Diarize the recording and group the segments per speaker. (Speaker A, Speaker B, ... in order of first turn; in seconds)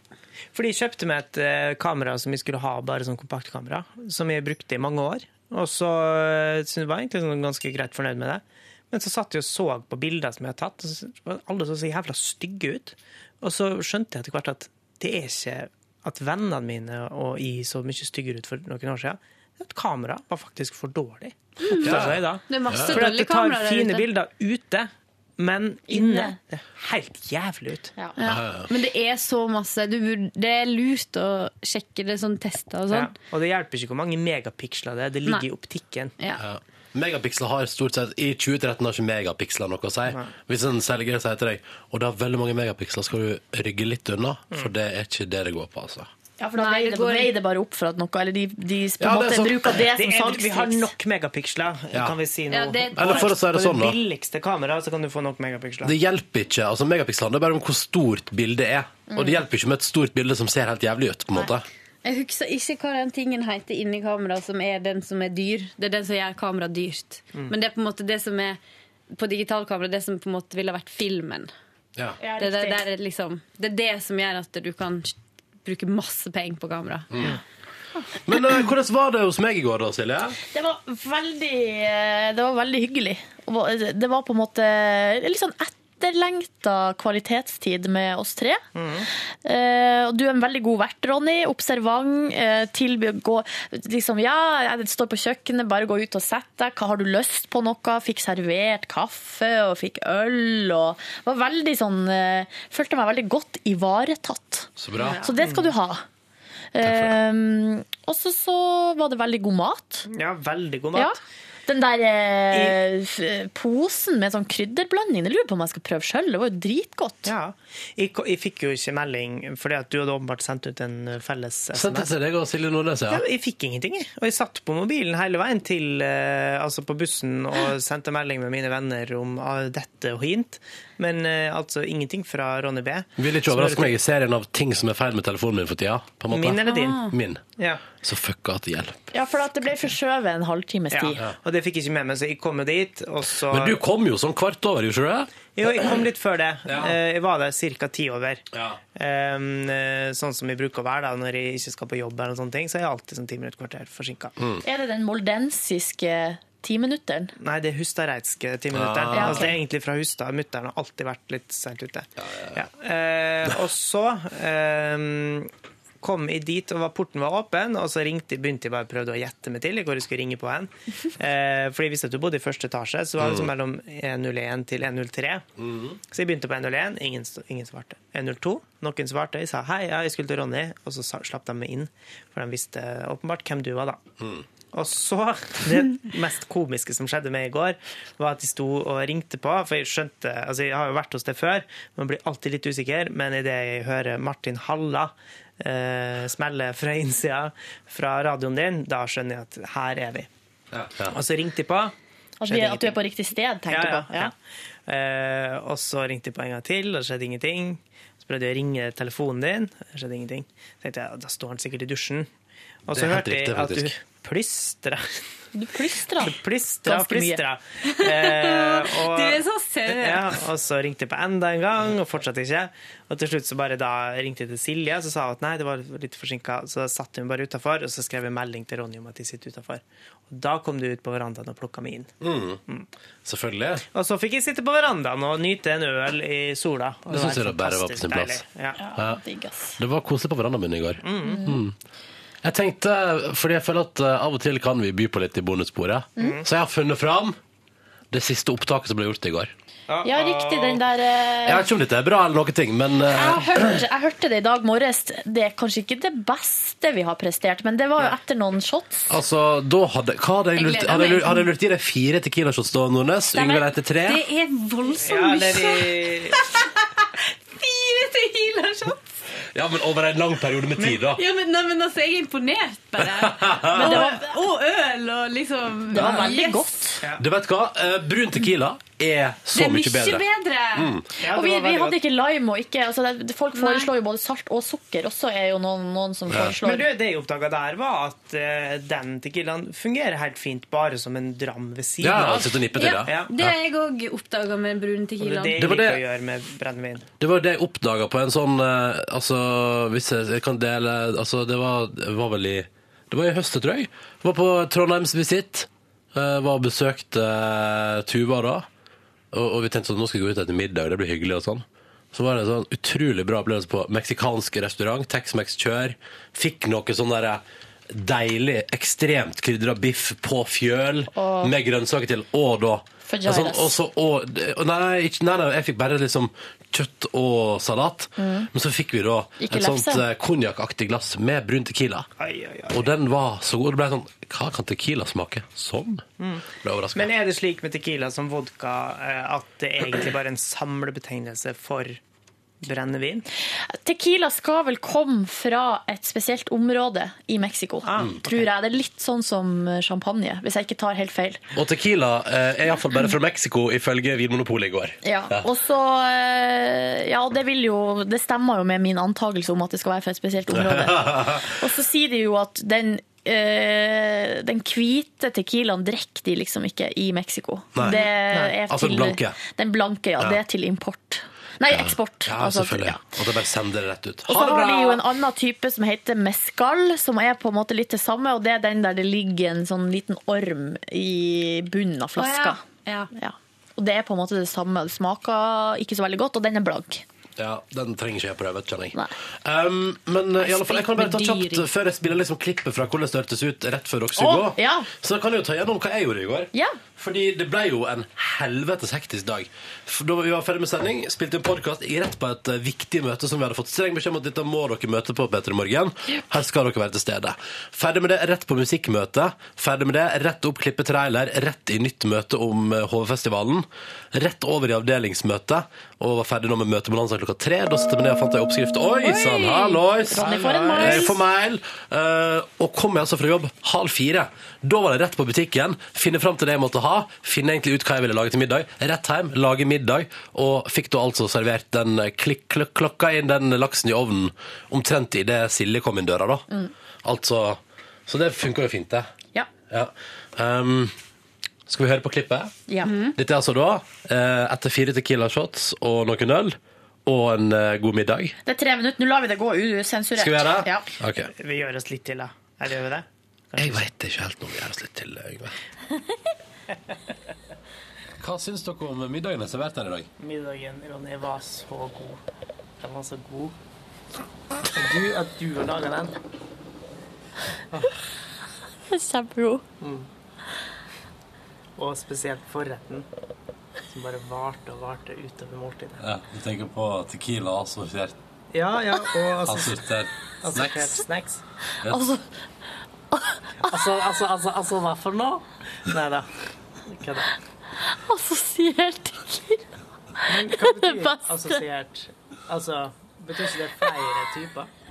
Speaker A: 0.5-27.9, 32.9-36.1, 49.9-56.0, 88.8-89.1, 105.0-105.7, 110.1-111.2, 112.5-112.8, 117.3-122.1, 123.1-133.9, 136.3-137.8, 140.9-143.8, 145.6-154.4, 157.4-175.4, 176.1-184.0, 184.7-200.3, 201.1-201.9, 202.5-203.0, 203.7-204.3, 204.9-212.3, 212.9-215.1, 216.2-232.2, 233.9-238.8, 241.0-241.6, 246.2-246.4, 249.9-250.8, 264.9-266.4, 281.2-282.0, 286.4-293.3, 295.2-297.1, 332.2-332.9, 336.2-342.0, 342.6-343.3, 347.8-348.4, 451.3-453.8, 460.2-462.2, 462.8-463.6, 464.8-466.2, 469.8-470.1, 471.8-473.1, 473.9-476.0, 478.5-479.8, 480.4-481.4, 483.6-487.4, 490.2-494.7
Speaker B: 21.6-24.1, 28.2-33.1, 46.6-47.3, 52.5-53.4, 62.0-68.6, 69.1-71.5, 72.4-77.3, 136.7-137.2, 217.8-220.4, 260.5-261.5, 263.3-269.1, 271.1-276.9, 279.5-280.9, 283.5-283.9, 292.7-295.6, 382.2-383.1, 390.4-391.7, 442.8-443.2
Speaker C: 21.8-22.2, 22.7-23.0, 28.2-28.7, 36.4-46.1, 49.0-49.8, 53.0-54.0, 55.8-61.7, 78.3-80.4, 104.8-105.2, 106.8-107.1, 121.7-123.2, 133.2-137.4, 138.0-139.1, 143.5-146.0, 146.7-147.0, 148.5-148.8, 158.7-159.5, 173.2-173.5, 175.6-176.0, 200.7-201.2, 212.9-213.9, 232.2-232.6, 233.2-233.8, 237.1-238.4, 239.8-241.8, 242.4-247.4, 248.1-249.5, 251.4-253.8, 259.1-264.2, 269.5-271.2, 273.0-274.0, 276.0-276.3, 277.2-281.0, 292.0-293.5, 295.6-296.0, 297.2-308.7, 309.3-332.1, 332.7-336.0, 336.6-337.1, 351.6-355.4, 360.5-361.5, 367.8-368.0, 368.6-369.4, 371.7-374.9, 387.4-436.5, 437.0-439.1, 439.7-440.9, 441.7-442.5, 443.1-448.4, 450.2-451.3, 453.6-455.6, 458.2-460.1, 476.2-477.0, 479.7-480.7, 481.8-482.1
Speaker D: 25.9-26.4, 46.4-50.9, 72.2-72.8, 80.5-88.6, 89.4-106.0, 106.7-110.1, 111.0-117.3, 139.1-141.2, 154.6-157.3, 159.1-159.5, 202.4-204.3, 215.5-217.4, 238.8-239.8, 241.2-241.6, 250.0-251.7, 253.1-259.1, 273.7-274.4, 275.9-277.0, 281.2-286.9, 321.1-321.5, 323.1-323.8, 328.2-328.5, 329.4-330.0, 343.7-351.4, 355.0-373.1, 374.3-382.6, 383.1-387.0, 394.2-394.9, 396.5-396.8, 419.0-421.2, 442.7-442.9, 448.4-450.9, 468.9-469.6, 481.8-482.2, 483.1-483.7, 487.8-489.6, 490.2-491.6
Speaker E: 476.2-478.1